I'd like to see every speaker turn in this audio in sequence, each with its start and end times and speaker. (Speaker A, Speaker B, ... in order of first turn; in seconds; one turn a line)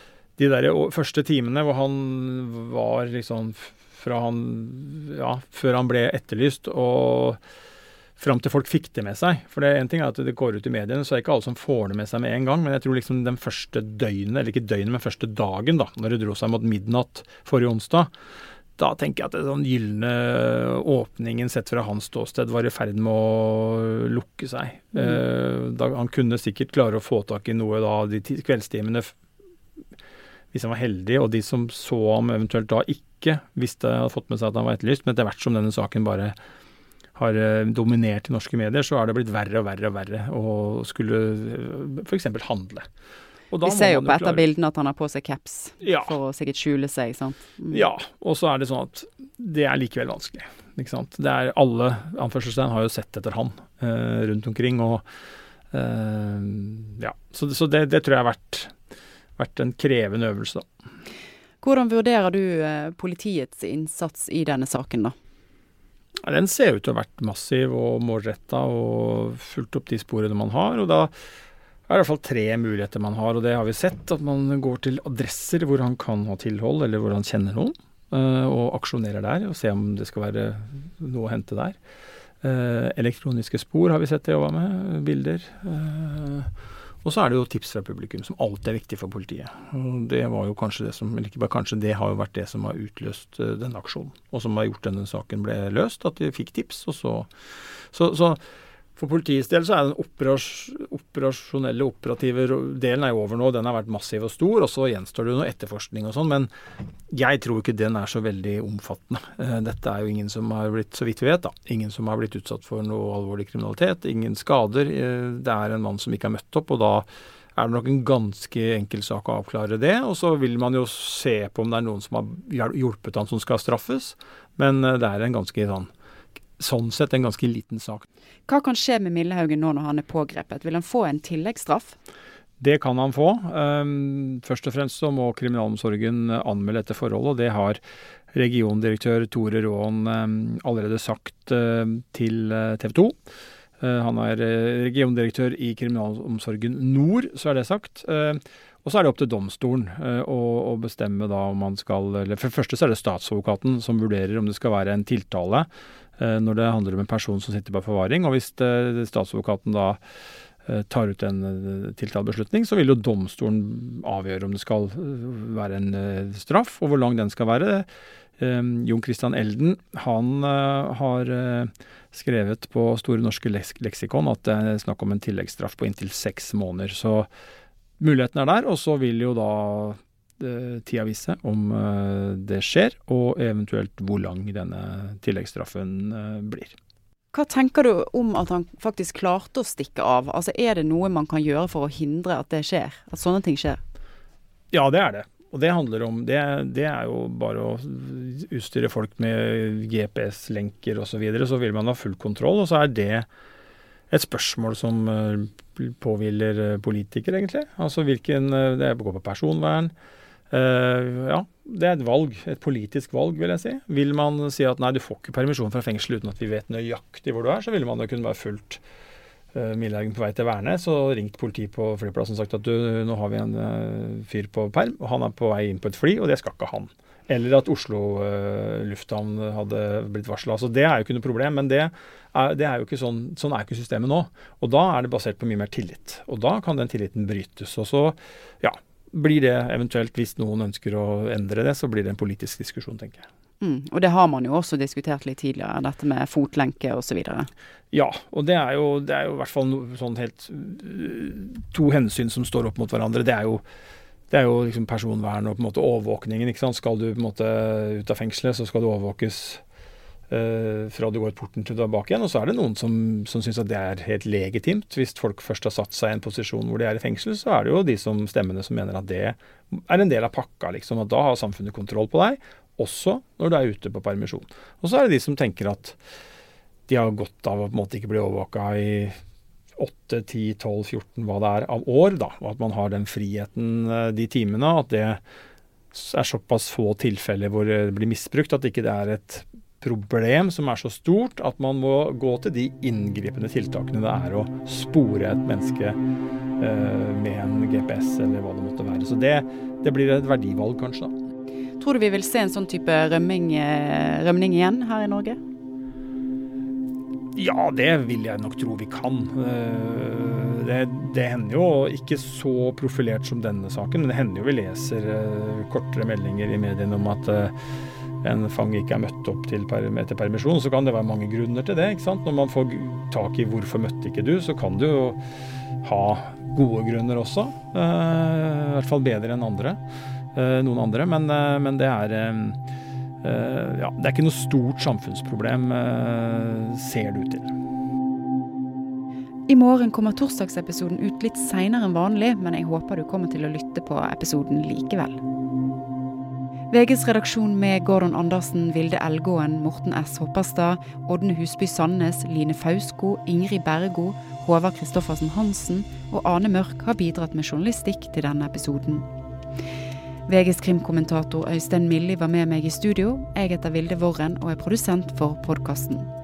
Speaker A: 0.4-7.4
Speaker A: 8.2-18.1
Speaker A: 18.8-29.1
Speaker A: 30.5-36.4
Speaker A: 37.2-42.9
Speaker A: 43.5-44.5
Speaker B: 43.6-47.8
Speaker A: 45.8-46.1
Speaker A: 47.7-55.0
Speaker A: 55.7-58.7
Speaker A: 59.4-60.7
Speaker B: 61.6-65.2
Speaker A: 66.2-71.1
Speaker A: 71.9-81.8
Speaker A: 82.4-86.5
Speaker A: 87.0-97.3
Speaker A: 97.9-98.4
Speaker A: 99.0-106.5
Speaker A: 107.1-125.9
Speaker A: 126.6-128.1
Speaker B: 128.5-132.0
Speaker A: 132.6-137.8
Speaker A: 138.3-143.2
Speaker A: 143.8-160.0
Speaker A: 160.7-167.9
Speaker A: 168.4-177.3
Speaker A: 178.0-186.8
Speaker B: 187.3-193.8
Speaker A: 194.7-203.3
Speaker A: 204.1-209.9
Speaker A: 210.5-218.8
Speaker A: 219.5-243.3
Speaker B: 243.6-247.5
Speaker A: 247.9-253.6
Speaker A: 254.3-259.6
Speaker A: 260.3-276.0
Speaker A: 276.9-279.2
Speaker A: 279.8-285.2
Speaker A: 285.9-296.0
Speaker A: 296.6-301.1
Speaker B: 301.8-305.4
Speaker A: 307.4-317.6
Speaker A: 318.2-325.2
Speaker A: 325.8-329.8
Speaker A: 330.4-332.6
Speaker A: 333.2-337.5
Speaker B: 339.5-345.2
Speaker B: 346.7-359.1
Speaker B: 360.3-366.1